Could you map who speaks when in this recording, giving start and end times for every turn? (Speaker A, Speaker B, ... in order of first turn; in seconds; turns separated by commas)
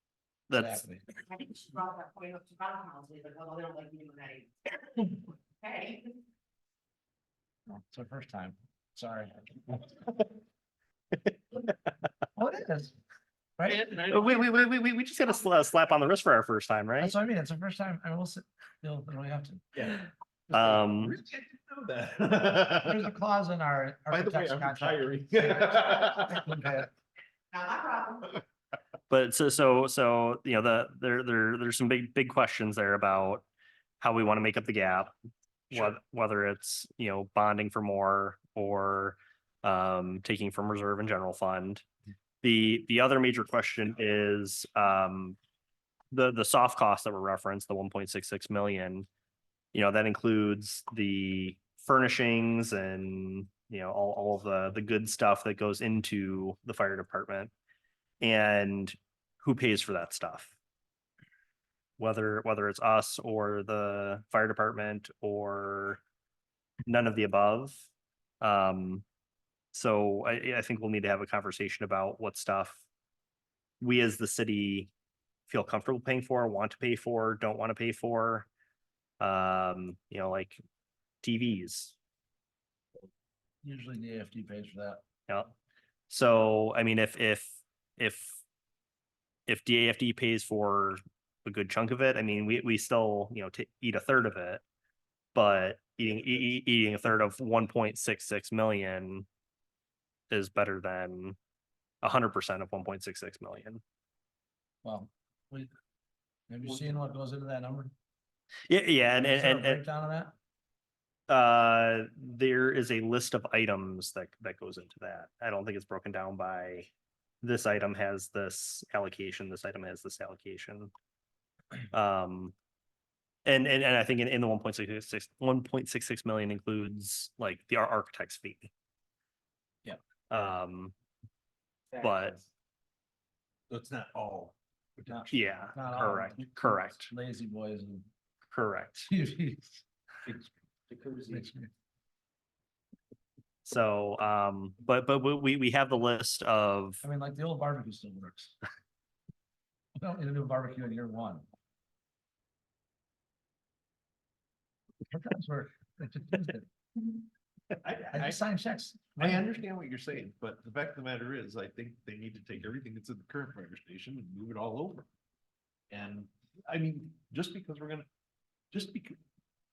Speaker A: 0.5-0.8, Speaker B: 0.5-1.1, Speaker C: 1.3-6.2, Speaker B: 7.7-10.2, Speaker B: 12.3-13.0, Speaker A: 13.7-17.2, Speaker B: 17.0-19.7, Speaker D: 19.8-23.1, Speaker A: 20.5-21.2, Speaker B: 22.8-26.9, Speaker D: 24.1-26.8, Speaker C: 27.5-28.4, Speaker A: 29.1-33.5, Speaker A: 34.0-35.1, Speaker A: 35.7-41.9, Speaker A: 42.4-45.4, Speaker A: 46.1-49.1, Speaker A: 49.7-57.5, Speaker A: 58.2-60.6, Speaker A: 62.0-66.0, Speaker A: 66.8-67.9, Speaker A: 68.4-69.0, Speaker A: 69.7-72.8, Speaker A: 73.8-74.9, Speaker A: 75.5-78.5, Speaker A: 79.2-80.6, Speaker A: 81.2-82.0, Speaker B: 83.6-85.0, Speaker A: 85.3-85.5, Speaker A: 86.1-88.4, Speaker A: 89.5-94.6, Speaker A: 95.3-99.3, Speaker A: 100.3-101.4, Speaker A: 102.0-103.8, Speaker B: 104.8-105.7, Speaker B: 106.5-107.9, Speaker A: 108.7-109.8, Speaker B: 109.2-110.3, Speaker A: 111.3-116.9, Speaker A: 117.4-120.9, Speaker A: 121.9-122.5, Speaker A: 123.5-128.7, Speaker A: 130.3-130.9, Speaker A: 132.0-132.4, Speaker D: 132.0-132.3, Speaker D: 133.7-135.5, Speaker B: 135.1-138.1, Speaker A: 135.3-137.1, Speaker A: 138.5-139.1, Speaker B: 139.1-139.8, Speaker D: 140.3-141.5, Speaker B: 141.3-141.7, Speaker A: 143.7-147.0, Speaker B: 147.0-148.6, Speaker B: 150.0-151.5, Speaker B: 155.1-156.7, Speaker D: 157.8-158.4, Speaker B: 158.1-159.4, Speaker D: 159.2-165.1, Speaker D: 165.9-168.1, Speaker D: 168.7-169.2